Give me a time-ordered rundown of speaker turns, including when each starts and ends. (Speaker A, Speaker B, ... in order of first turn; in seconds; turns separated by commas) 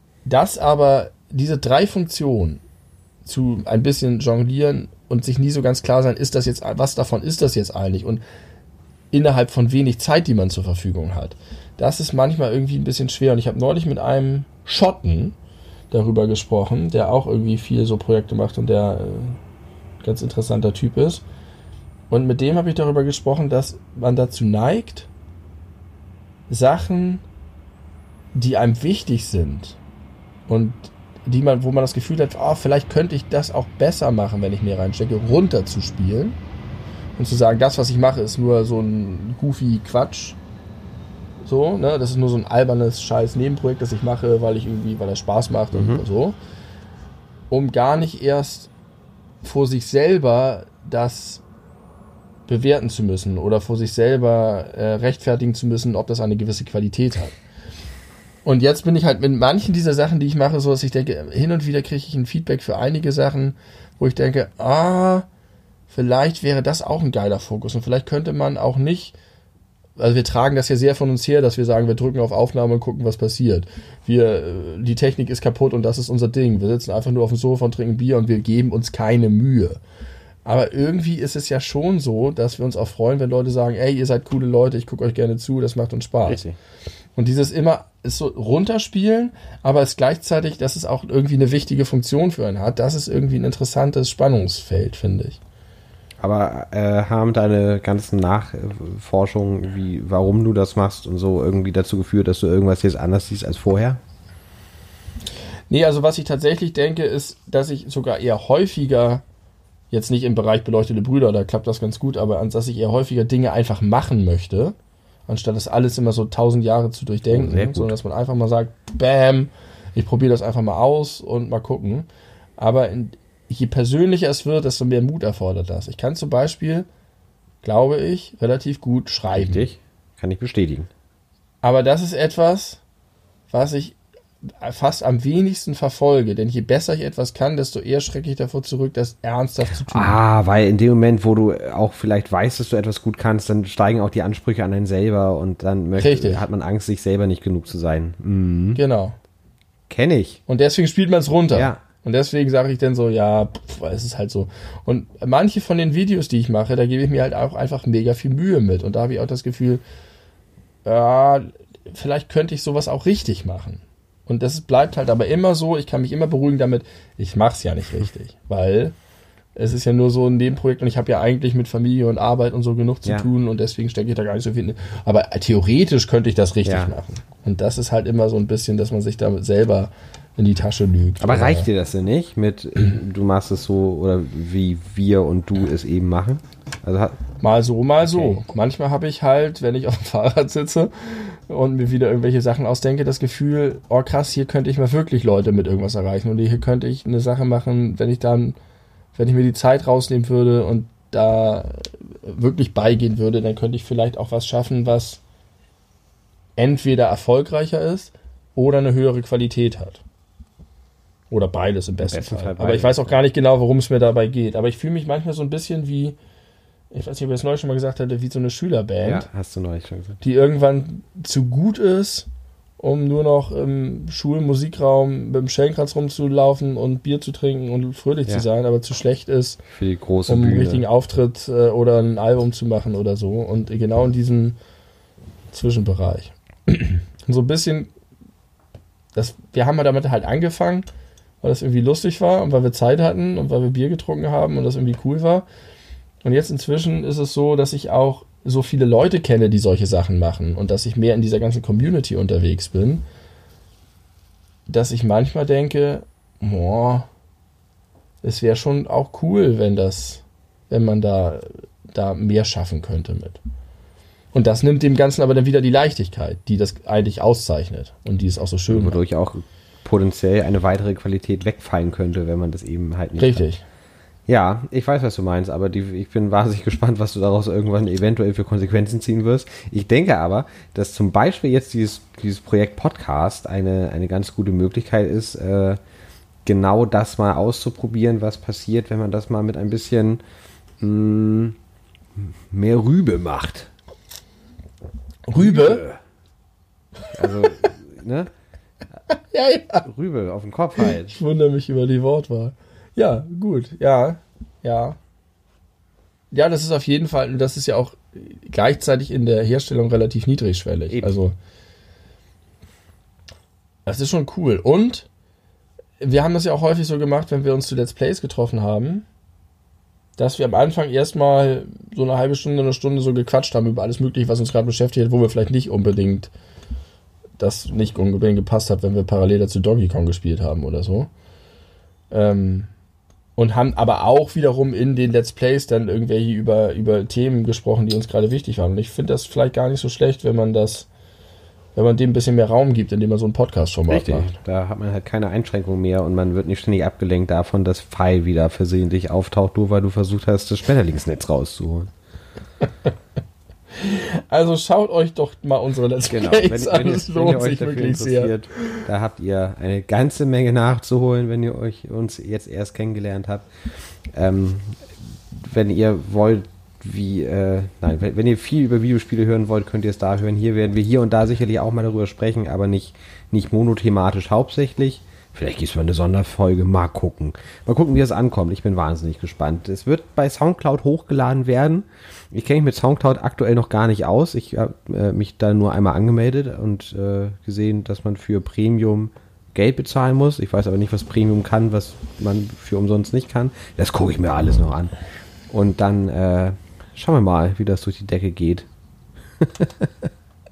Speaker A: 0.2-2.6, Speaker A: 3.2-8.2, Speaker A: 9.1-15.3, Speaker A: 15.9-19.4, Speaker A: 20.0-21.2, Speaker A: 22.1-25.1, Speaker A: 26.5-27.2, Speaker A: 28.3-29.8, Speaker A: 30.5-36.4, Speaker A: 37.2-40.4, Speaker A: 41.4-46.4, Speaker B: 45.7-46.0, Speaker A: 47.5-48.7, Speaker A: 49.4-51.4, Speaker A: 52.5-57.4, Speaker A: 58.4-65.2, Speaker A: 65.9-69.1, Speaker A: 70.0-79.8, Speaker A: 80.5-86.4, Speaker B: 86.2-86.5, Speaker A: 87.2-95.4, Speaker B: 96.2-104.0, Speaker A: 105.7-109.2, Speaker A: 109.9-114.8, Speaker A: 115.3-126.9, Speaker B: 117.3-118.0, Speaker A: 127.6-129.7, Speaker B: 129.3-130.9, Speaker A: 131.6-132.8, Speaker A: 133.5-134.0, Speaker A: 134.5-140.2, Speaker B: 139.8-148.8, Speaker A: 146.0-146.4, Speaker A: 148.7-149.2, Speaker B: 149.9-150.4, Speaker A: 150.5-159.8, Speaker B: 151.5-151.8, Speaker A: 160.8-168.9, Speaker A: 169.6-181.7, Speaker B: 173.0-173.3, Speaker B: 176.6-176.9, Speaker B: 181.2-187.2, Speaker A: 187.4-198.6, Speaker B: 188.1-188.4, Speaker A: 199.1-205.2, Speaker A: 206.6-210.0, Speaker A: 211.3-216.2, Speaker B: 212.0-213.2, Speaker A: 216.9-219.3, Speaker B: 219.0-220.2, Speaker A: 220.2-222.3, Speaker A: 222.8-229.6, Speaker B: 229.7-230.8, Speaker A: 230.3-234.6, Speaker A: 235.5-237.9, Speaker A: 239.1-240.8, Speaker A: 241.4-245.5, Speaker A: 246.2-253.0, Speaker A: 254.7-257.1, Speaker A: 258.2-263.4, Speaker A: 264.3-269.0, Speaker B: 268.7-273.4, Speaker A: 273.2-273.6, Speaker B: 274.3-285.8, Speaker B: 286.4-290.2, Speaker B: 290.8-291.6, Speaker B: 292.1-293.7, Speaker A: 295.3-295.9, Speaker B: 295.4-296.0, Speaker B: 297.1-298.3, Speaker A: 297.2-297.6, Speaker A: 299.1-299.9, Speaker B: 299.8-301.1, Speaker A: 300.8-305.0, Speaker A: 306.3-311.3, Speaker B: 310.9-311.2, Speaker A: 313.9-315.1, Speaker A: 316.0-319.1, Speaker A: 320.2-326.3, Speaker A: 327.4-331.1, Speaker A: 332.1-332.7, Speaker A: 333.4-340.9, Speaker A: 341.7-344.3, Speaker B: 343.9-351.9, Speaker A: 353.8-358.8, Speaker B: 356.1-363.5, Speaker B: 364.1-394.9, Speaker B: 395.5-398.7, Speaker B: 399.4-400.1